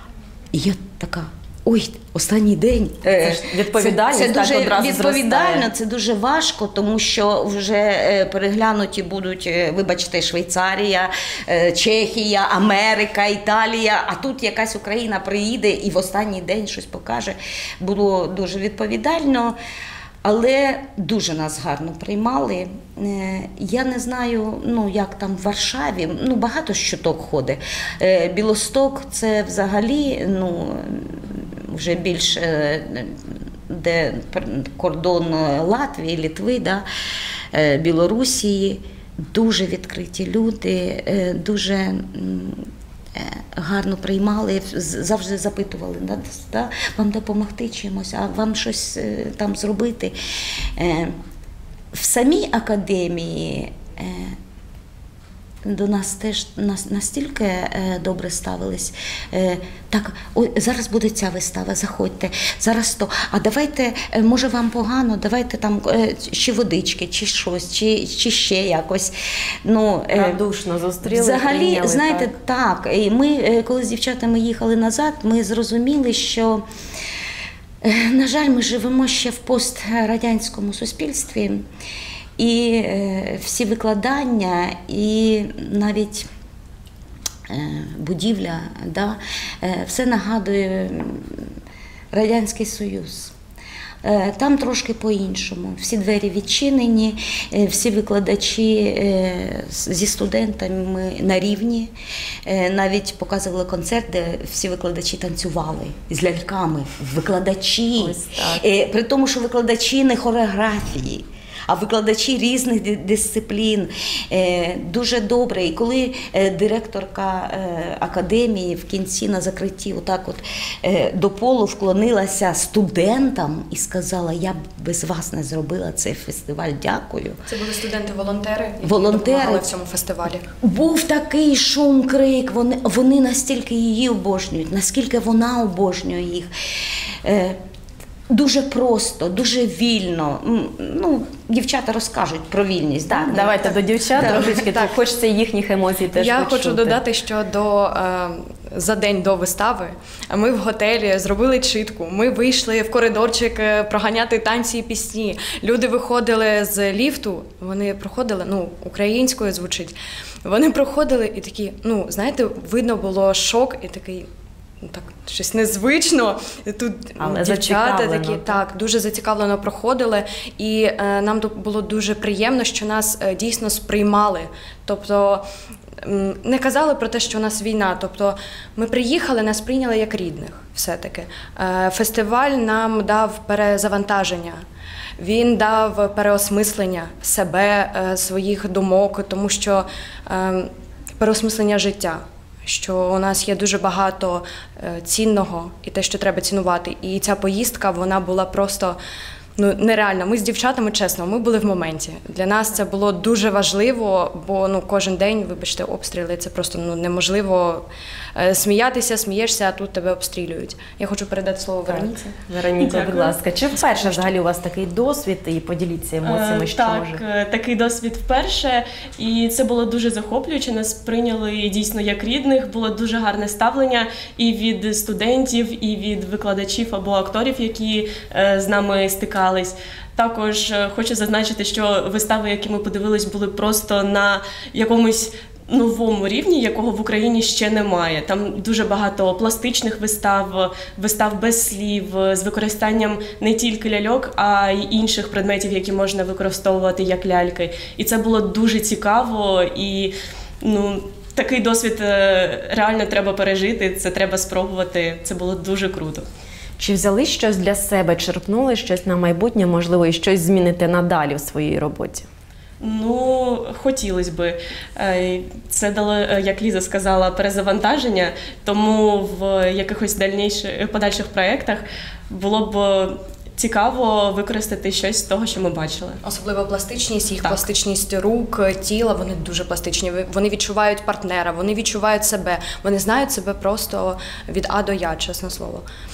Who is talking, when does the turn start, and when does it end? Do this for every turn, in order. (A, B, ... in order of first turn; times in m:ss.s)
0:00.5-0:19.6 A
0:03.2-0:05.7 B
0:20.2-0:36.8 A
0:37.5-0:42.6 A
0:43.2-0:50.2 A
0:50.8-0:51.2 A
0:51.9-0:54.4 A
0:55.6-1:09.1 A
1:09.6-1:10.4 A
1:10.1-1:12.3 B
1:11.0-1:16.6 A
1:17.8-1:21.6 A
1:22.4-1:26.3 A
1:27.5-1:31.5 A
1:32.1-1:33.3 A
1:34.0-1:41.9 A
1:42.5-2:07.4 A
1:48.0-1:48.7 B
2:07.5-2:10.5 C
2:08.8-2:09.7 A
2:10.6-2:16.5 A
2:17.2-2:17.6 A
2:18.3-2:24.5 A
2:23.1-2:27.0 B
2:24.2-2:25.0 C
2:26.1-2:44.3 C
2:44.8-2:55.4 C
2:47.2-2:48.6 B
2:56.0-3:04.6 C
3:05.2-3:19.0 C
3:19.6-3:32.3 C
3:31.9-3:37.2 B
3:32.8-3:33.4 D
3:33.8-3:34.3 C
3:36.2-4:16.3 D
4:16.8-4:22.3 B
4:22.8-4:36.2 D
4:36.2-4:45.8 C